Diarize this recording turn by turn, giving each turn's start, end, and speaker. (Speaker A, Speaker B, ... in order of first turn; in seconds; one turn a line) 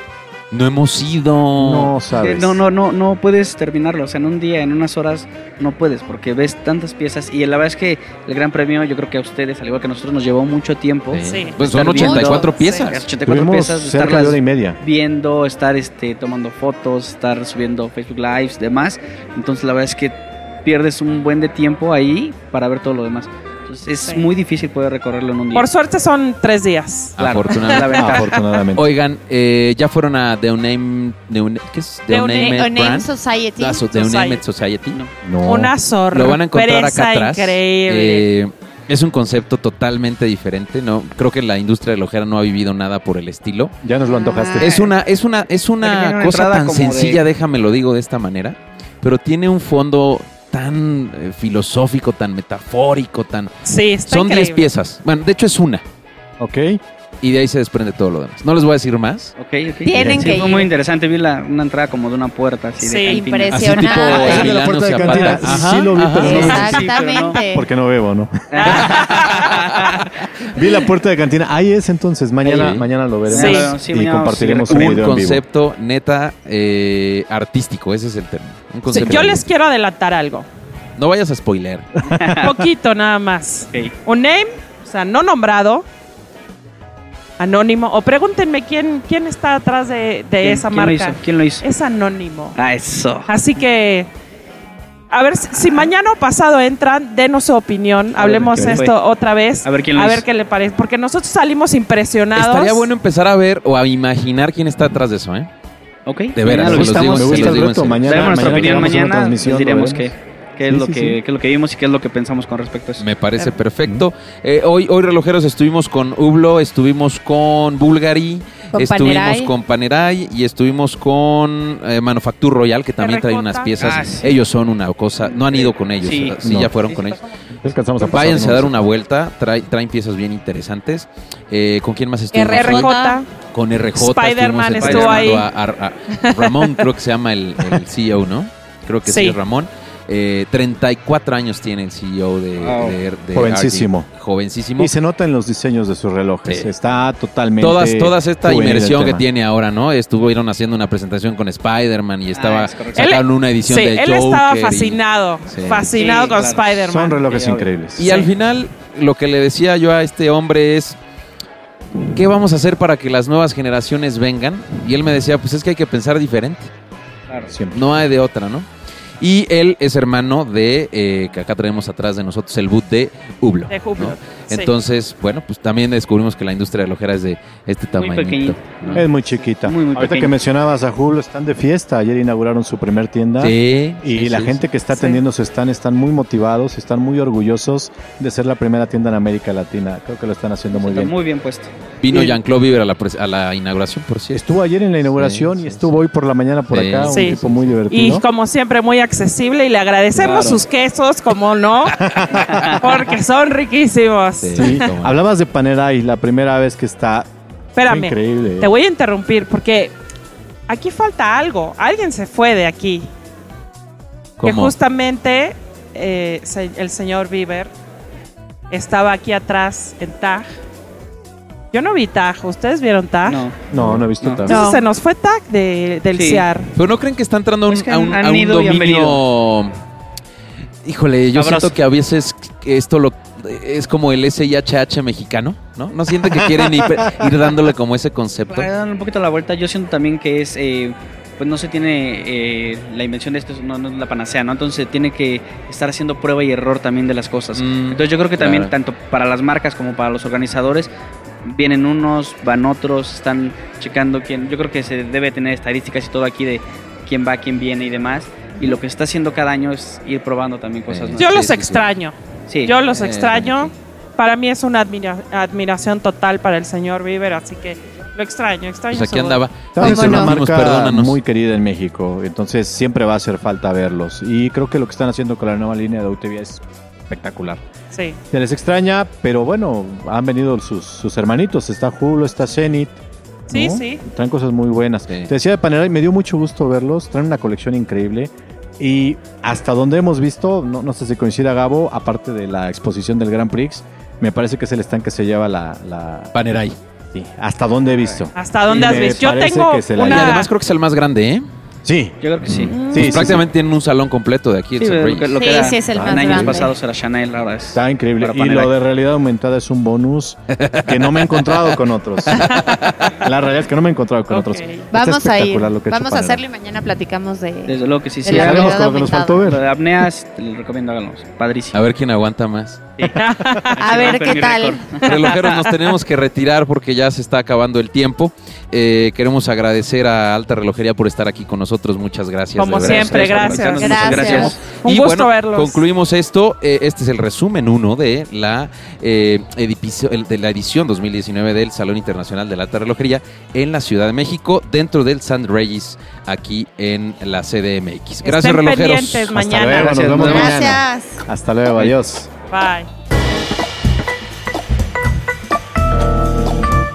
Speaker A: 0.5-2.0
Speaker B: 1.6-2.6
Speaker C: 2.1-25.7
Speaker A: 11.1-13.0
Speaker D: 11.2-11.6
Speaker E: 11.9-12.8
Speaker D: 12.5-12.9
Speaker B: 13.2-14.8
Speaker D: 25.5-27.8
Speaker A: 27.2-35.0
Speaker C: 27.2-28.3
Speaker B: 27.9-28.9
Speaker D: 32.1-32.7
Speaker E: 32.4-33.8
Speaker D: 33.9-34.4
Speaker B: 35.2-35.7
Speaker D: 35.4-38.3
Speaker A: 36.1-43.7
Speaker B: 43.8-44.7
Speaker E: 44.1-44.7
Speaker A: 44.6-53.5
Speaker C: 44.6-44.9
Speaker C: 45.8-47.2
Speaker D: 53.6-54.7
Speaker A: 54.0-55.8
Speaker B: 56.4-56.8
Speaker A: 57.2-59.3
Speaker C: 59.4-67.4
Speaker E: 59.8-60.7
Speaker B: 59.9-60.4
Speaker E: 62.8-64.6
Speaker D: 62.8-63.2
Speaker A: 63.5-66.6
Speaker B: 64.0-66.9
Speaker E: 65.9-67.7
Speaker B: 67.5-68.9
Speaker C: 68.5-70.2
Speaker D: 68.5-69.5
Speaker B: 70.5-75.4
Speaker C: 72.4-75.0
Speaker A: 72.5-72.9
Speaker D: 73.3-73.7
Speaker A: 74.7-79.4
Speaker D: 78.9-80.5
Speaker A: 81.0-81.9
Speaker C: 82.0-82.6
Speaker D: 82.4-85.8
Speaker D: 87.4-92.6
Speaker C: 90.4-91.6
Speaker C: 92.5-93.3
Speaker D: 93.3-94.1
Speaker D: 95.1-102.9
Speaker C: 98.2-99.0
Speaker B: 98.5-98.8
Speaker C: 99.6-100.2
Speaker A: 102.3-105.5
Speaker C: 106.0-113.0
Speaker A: 106.3-108.9
Speaker B: 106.6-110.1
Speaker B: 110.7-111.2
Speaker A: 113.0-127.2
Speaker E: 118.7-119.5
Speaker D: 123.0-123.7
Speaker C: 123.8-124.4
Speaker C: 125.3-127.2
Speaker B: 126.4-126.7
Speaker B: 127.5-128.9
Speaker A: 128.0-132.9
Speaker D: 132.3-133.3
Speaker E: 132.5-133.2
Speaker A: 133.5-144.9
Speaker D: 134.0-135.5
Speaker C: 134.8-135.4
Speaker D: 136.1-136.7
Speaker D: 139.1-139.4
Speaker C: 142.6-143.0
Speaker B: 143.3-144.1
Speaker B: 144.8-149.2
Speaker A: 146.4-146.7
Speaker A: 147.6-156.0
Speaker C: 152.3-153.1
Speaker D: 152.9-157.2
Speaker C: 155.9-156.7
Speaker B: 156.8-158.1
Speaker C: 157.2-157.7
Speaker A: 157.9-161.0
Speaker D: 158.0-158.3
Speaker A: 162.1-166.7
Speaker B: 167.5-167.9
Speaker A: 167.7-168.7
Speaker A: 169.2-179.1
Speaker D: 173.7-174.7
Speaker C: 177.9-180.3
Speaker B: 178.9-191.1
Speaker A: 183.4-184.6
Speaker E: 184.9-185.2
Speaker C: 190.7-191.7
Speaker A: 192.0-194.4
Speaker B: 192.1-192.4
Speaker B: 194.3-198.2
Speaker A: 195.0-196.0
Speaker A: 196.7-197.8
Speaker D: 197.1-197.4
Speaker D: 197.9-202.0
Speaker C: 200.1-200.6
Speaker B: 202.0-202.3
Speaker C: 202.3-203.1
Speaker D: 202.6-204.9
Speaker A: 204.4-205.2
Speaker B: 204.5-207.3
Speaker D: 207.7-209.9
Speaker B: 207.8-208.7
Speaker D: 210.7-213.1
Speaker A: 214.4-214.7
Speaker D: 214.4-217.7
Speaker D: 218.7-220.4
Speaker D: 221.7-223.5
Speaker C: 223.2-223.6
Speaker B: 223.7-224.6
Speaker A: 223.7-224.1
Speaker C: 224.2-224.5
Speaker E: 224.4-224.8
Speaker D: 224.4-226.7
Speaker C: 226.1-226.4
Speaker A: 226.7-229.7
Speaker C: 227.7-229.2
Speaker A: 230.8-238.7
Speaker C: 231.3-231.7
Speaker B: 236.4-236.8
Speaker C: 238.5-250.9
Speaker A: 247.5-248.7
Speaker C: 251.4-261.4
Speaker A: 260.9-261.9
Speaker D: 261.1-269.4
Speaker C: 262.5-262.8
Speaker A: 262.9-263.7
Speaker A: 268.9-271.2
Speaker B: 269.7-277.6
Speaker E: 269.8-270.3
Speaker D: 277.9-278.2
Speaker B: 278.3-282.9
Speaker D: 283.5-284.0
Speaker B: 283.5-296.3
Speaker A: 296.3-296.8
Speaker B: 297.1-300.4
Speaker C: 298.0-299.1
Speaker D: 298.3-300.5
Speaker A: 300.0-301.4
Speaker B: 301.8-302.2
Speaker C: 302.2-302.8
Speaker A: 302.4-305.4
Speaker D: 302.7-303.2
Speaker B: 302.7-303.4
Speaker C: 304.8-308.7
Speaker E: 305.4-306.7
Speaker D: 305.4-305.7
Speaker B: 305.9-306.7
Speaker B: 307.7-312.5
Speaker A: 310.6-311.7
Speaker A: 312.3-313.1
Speaker B: 313.1-316.4
Speaker D: 314.3-314.9
Speaker E: 314.9-319.4
Speaker C: 317.7-318.8
Speaker B: 318.3-319.6
Speaker C: 319.4-321.8
Speaker A: 321.7-322.8
Speaker C: 323.0-325.4
Speaker D: 323.1-323.8
Speaker E: 323.8-324.9
Speaker A: 325.0-349.4
Speaker D: 325.0-325.3
Speaker D: 332.6-335.8
Speaker C: 332.8-334.6
Speaker E: 333.6-334.6
Speaker D: 348.2-350.3
Speaker B: 349.3-352.3
Speaker C: 349.7-350.6
Speaker E: 350.2-351.2
Speaker D: 352.5-352.9